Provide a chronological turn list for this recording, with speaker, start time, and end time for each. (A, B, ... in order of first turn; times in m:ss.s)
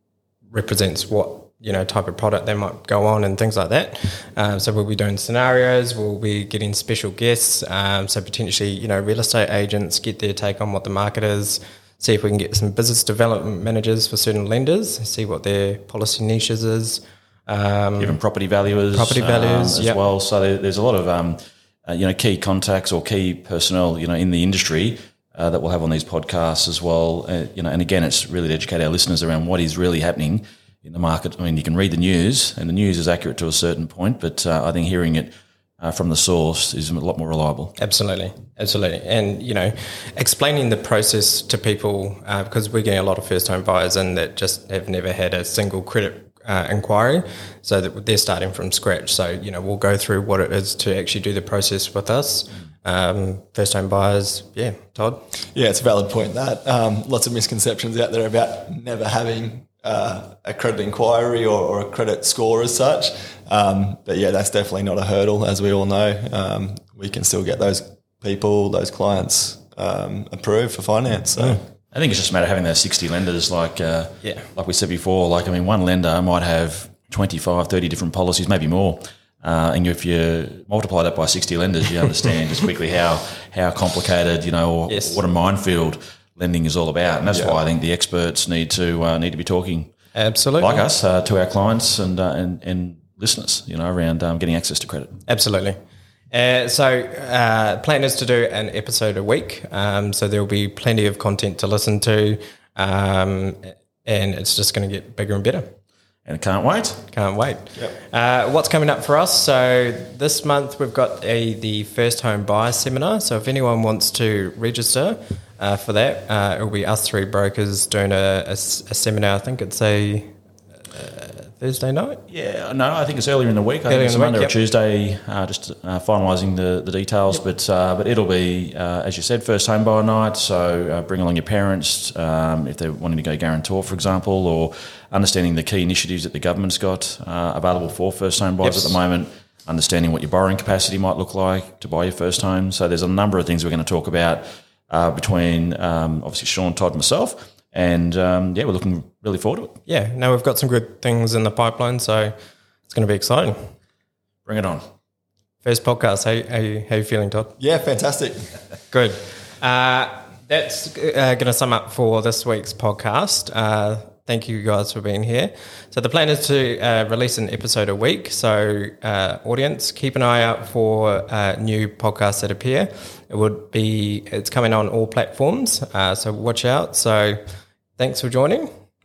0:00.5-0:18.2 A
0:18.0-0:37.7 B
0:18.9-0:20.0 A
0:37.8-0:55.2 A
0:55.5-1:11.6 C
1:11.9-1:29.9 B
1:14.2-1:14.5 A
1:24.9-1:25.2 A
1:27.3-1:27.6 C
1:30.1-1:30.8 A
1:30.6-1:35.2 B
1:35.2-1:35.8 A
1:36.3-1:45.7 A
1:46.2-1:47.0 B
1:47.1-2:00.3 A
2:00.9-2:02.2 A
2:02.3-2:29.8 B
2:03.9-2:04.5 A
2:18.6-2:19.0 A
2:29.8-2:32.3 A
2:32.9-2:33.6 A
2:34.4-2:34.8 B
2:35.6-2:37.5 A
2:37.6-2:38.5 C
2:38.9-2:57.4 A
2:58.0-2:58.7 A